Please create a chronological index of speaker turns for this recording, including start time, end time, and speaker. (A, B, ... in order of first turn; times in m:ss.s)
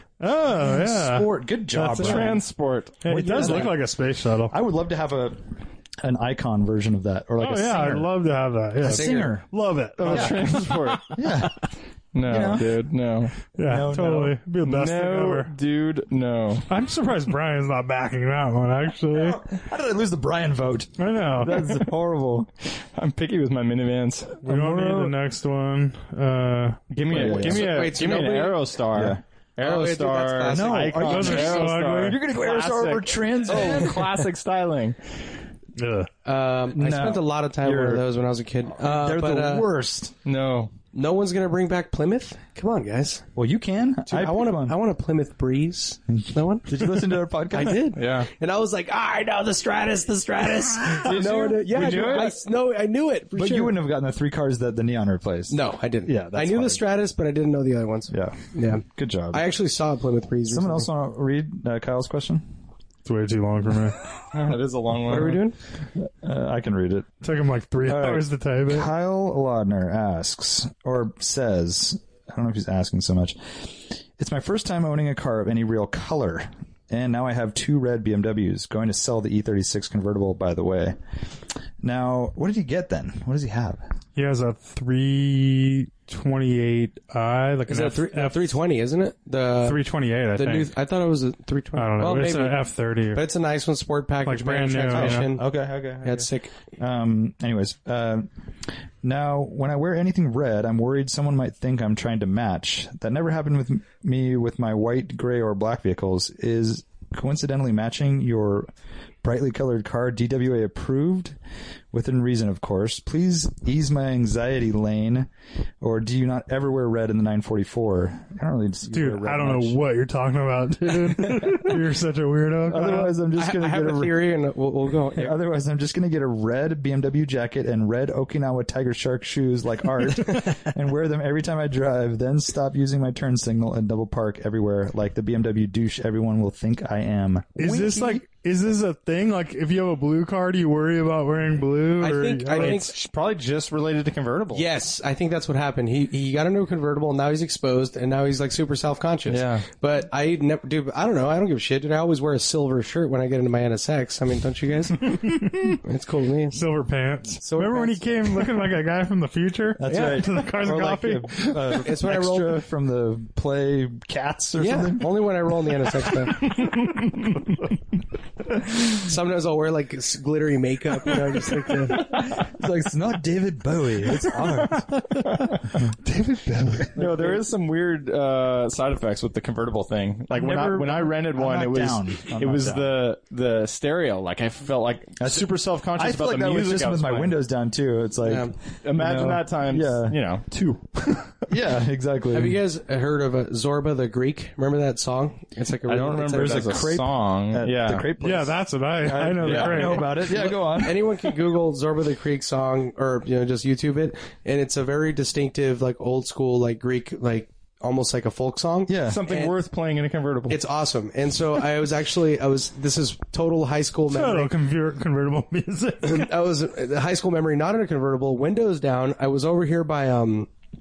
0:00.2-0:02.4 A
0:00.6-0:02.4 B
0:02.0-0:03.5 C
0:03.0-0:04.6 A
0:03.0-0:03.8 B
0:04.5-0:08.1 B
0:07.4-0:11.3 A
0:08.8-0:09.5 B
0:08.9-0:09.3 D
0:10.0-0:11.2 C
0:10.1-0:10.4 B
0:11.1-0:11.6 B
0:12.1-0:13.4 C
0:12.2-0:12.8 B
0:13.6-0:15.5 A
0:13.6-0:14.4 B
0:14.6-0:16.7 C
0:16.7-0:19.4 A
0:19.1-0:22.5 B
0:21.0-0:21.8 A
0:22.8-0:24.4 C
0:24.4-0:26.9 A
0:24.4-0:25.2 B
0:26.9-0:35.0 C
0:27.1-0:27.8 B
0:27.2-0:28.6 D
0:28.9-0:29.2 B
0:29.6-0:31.7 D
0:30.5-0:34.3 B
0:31.1-0:32.2 A
0:35.8-0:36.1 A
0:36.2-0:39.7 D
0:36.7-0:38.0 B
0:38.7-0:40.2 B
0:40.2-0:40.7 C
0:40.9-0:43.3 D
0:43.4-0:44.8 B
0:44.1-0:53.8 D
0:46.1-0:47.9 B
0:47.9-0:48.3 C
0:50.8-0:52.4 B
0:53.4-0:56.8 B
0:55.5-1:00.9 D
0:58.1-0:59.5 B
1:00.5-1:02.5 B
1:03.0-1:04.0 A
1:04.3-1:05.4 C
1:05.1-1:05.6 D
1:06.0-1:07.1 B
1:07.2-1:08.9 A
1:07.8-1:21.0 B
1:21.8-1:23.8 B
1:24.2-1:28.6 A
1:27.7-1:29.8 D
1:29.6-1:30.7 A
1:30.4-1:35.5 D
1:31.8-1:33.2 A
1:34.2-1:35.4 A
1:35.0-1:38.3 B
1:36.0-1:36.5 D
1:39.0-1:48.7 B
1:49.2-1:51.4 B
1:51.9-1:55.3 B
1:55.8-1:59.8 B
1:58.9-2:03.1 A
2:01.2-2:01.8 B
2:02.7-2:04.2 B
2:03.4-2:05.4 D
2:05.1-2:18.2 B
2:17.6-2:22.8 A
2:22.0-2:22.9 D
2:22.6-2:24.7 C
2:24.5-2:36.6 D
2:29.3-2:29.6 C
2:35.2-2:35.8 A
2:36.5-2:41.8 A
2:37.4-2:38.0 D
2:39.8-2:45.3 B
2:39.9-2:40.2 D
2:41.7-2:42.6 D
2:44.6-2:46.6 D
2:46.3-2:47.6 C
2:48.9-2:52.1 D
2:52.0-2:57.4 B
2:55.2-2:55.7 C
2:57.0-3:07.4 C
3:00.3-3:02.9 B
3:05.2-3:10.2 B
3:08.2-3:08.5 D
3:08.8-3:11.5 C
3:11.5-3:12.6 B
3:12.3-3:16.8 D
3:15.9-3:18.1 C
3:16.4-3:21.2 B
3:18.2-3:20.1 A
3:19.2-3:29.5 D
3:19.4-3:20.0 C
3:28.9-3:29.2 B
3:29.1-3:30.6 C
3:30.5-3:34.5 D
3:34.1-3:36.3 A
3:36.0-3:40.5 D